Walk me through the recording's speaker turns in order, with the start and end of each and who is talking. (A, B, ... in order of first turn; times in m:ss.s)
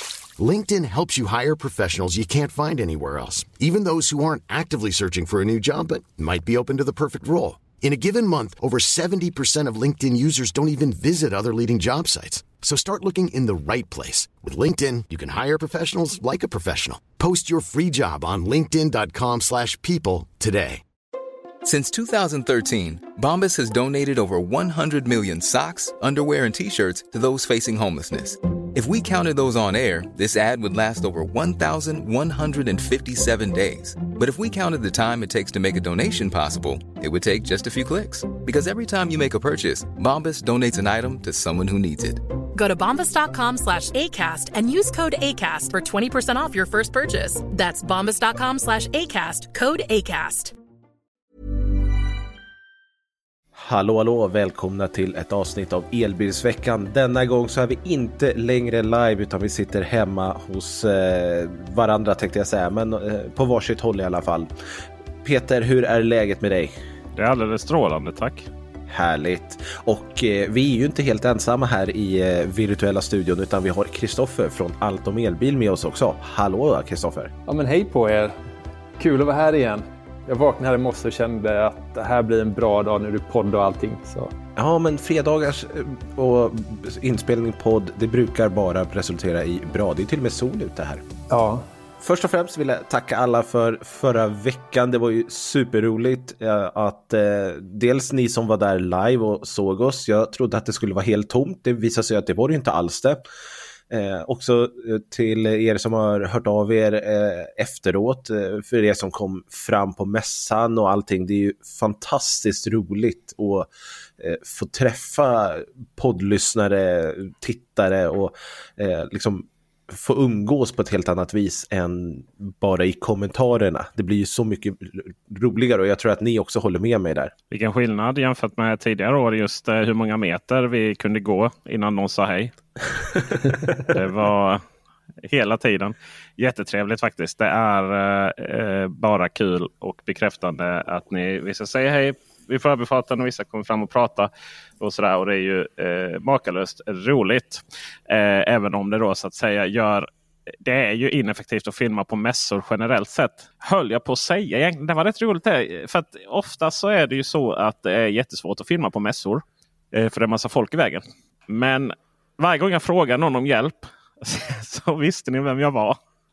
0:00.4-0:20.8 A
0:21.6-0:42.2 B
0:42.5-0:50.5 C
0:53.6-1:04.5 D
1:05.2-1:06.8 D
1:07.1-1:08.5 E
1:08.9-1:17.3 D
1:17.4-1:18.4 F
1:19.0-1:24.3 F
1:24.6-1:31.0 D
1:31.3-1:31.6 F
1:32.0-1:43.2 D
1:43.9-2:07.3 D
2:07.5-2:12.5 E
2:13.8-2:14.6 E
2:15.2-2:30.1 E
2:30.6-2:46.0 E